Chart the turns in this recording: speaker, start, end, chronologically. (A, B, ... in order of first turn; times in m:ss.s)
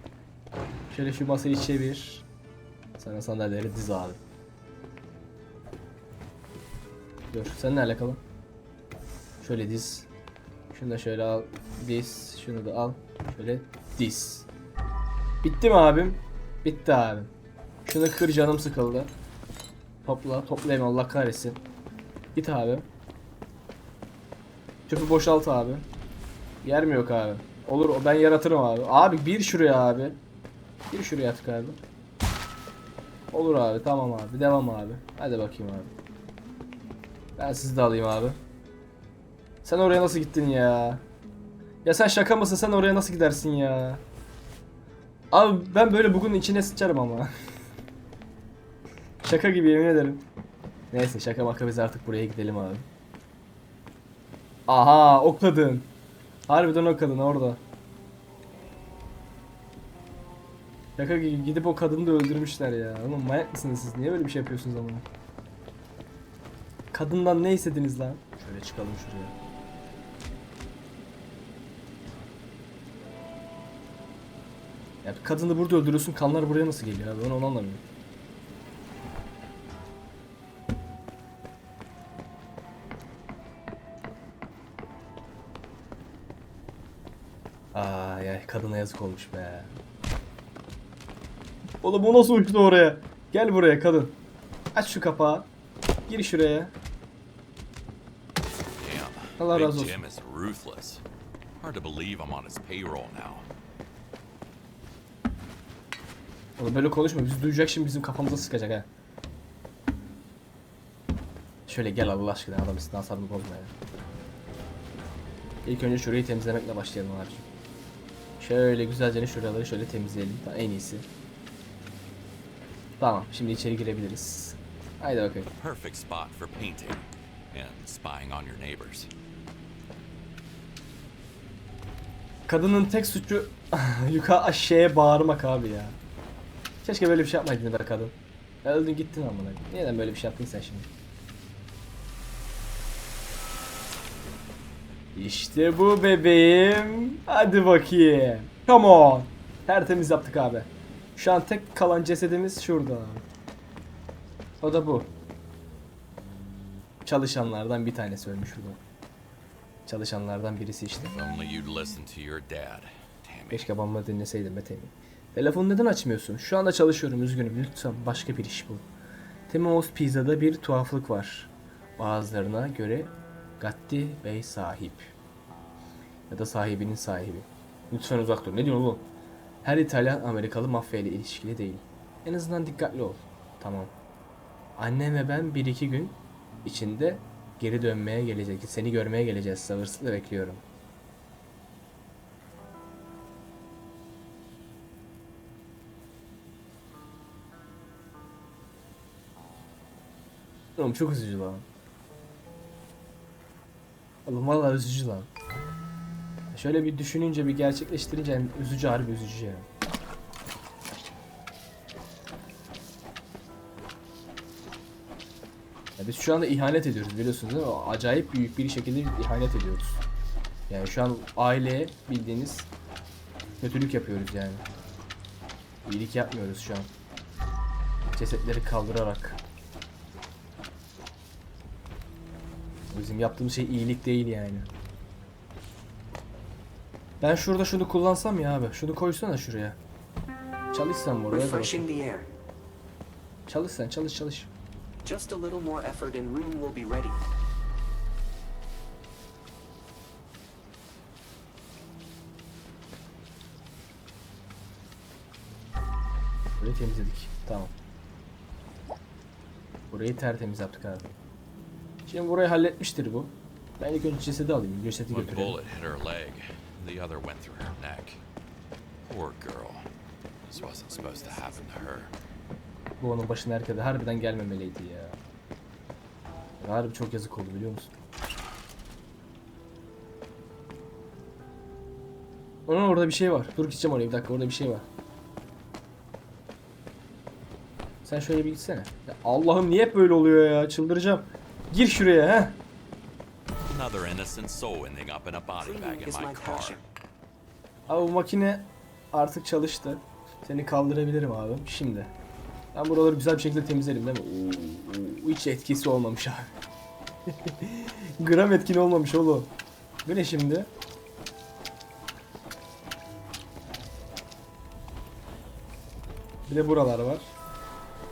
0:00.9-0:02.2 A
0:03.0-0:04.2 A
0:07.3-0:08.2 A
0:09.4-0:10.1 A
0:10.7-0:14.5 A
0:15.4-0:17.3 A
0:17.8-0:19.1 A
0:20.0-0:21.6 A
0:22.3-0:22.9 A
0:24.9-0:25.9 A
0:26.6-0:30.2 A
0:30.9-0:31.8 A
0:33.3-0:35.9 A
0:37.4-0:38.4 A
0:39.6-0:41.0 A
0:41.8-0:44.0 A
0:45.3-0:47.3 A
0:49.2-0:50.3 A
0:50.9-0:52.9 A
0:54.7-0:55.9 A
0:56.5-0:57.6 A
1:01.0-1:05.0 A
1:06.9-1:09.4 A
1:15.0-1:17.8 A
1:27.7-1:29.7 A
1:31.8-1:34.2 A
1:34.7-1:35.5 A
1:36.1-1:36.7 A
1:38.8-1:41.0 B
1:39.4-1:40.0 A
1:41.6-1:43.4 B
1:46.6-1:48.9 A
1:51.7-1:53.7 A
1:55.6-1:57.4 A
1:58.4-2:01.1 A
2:03.0-2:05.5 A
2:05.6-2:09.1 B
2:12.5-2:16.0 A
2:16.8-2:20.9 A
2:25.1-2:33.2 A
2:34.6-2:35.1 A
2:37.0-2:38.8 A
2:39.8-2:41.1 A
2:41.0-2:43.7 B
2:43.5-2:48.8 A
2:49.5-2:55.1 A
2:56.3-2:59.1 A
2:59.6-3:03.9 A
3:04.8-3:10.6 A
3:20.8-3:21.6 A
3:24.2-3:25.3 A
3:26.5-3:29.7 A
3:36.0-3:40.0 A
3:40.7-3:42.7 A
3:43.6-3:44.6 A
3:45.8-3:46.9 A
3:48.1-3:49.4 A
3:52.9-3:54.7 A
3:57.2-3:59.8 A
4:00.7-4:01.9 A
4:01.3-4:02.3 C
4:03.5-4:04.5 A
4:05.0-4:07.2 C
4:16.6-4:17.7 A
4:19.9-4:21.1 A
4:22.1-4:25.6 A
4:25.1-4:28.2 B
4:29.0-4:29.8 B
4:30.4-4:32.1 B
4:30.5-4:32.1 C
4:33.0-4:35.2 A
4:36.6-4:37.9 A
4:42.7-4:44.9 A
4:48.0-4:52.6 A
4:53.7-4:56.8 B
4:55.6-4:56.8 C
4:57.9-5:02.1 A
5:02.7-5:06.5 A
5:07.3-5:09.5 A
5:10.0-5:10.7 A
5:16.5-5:17.3 A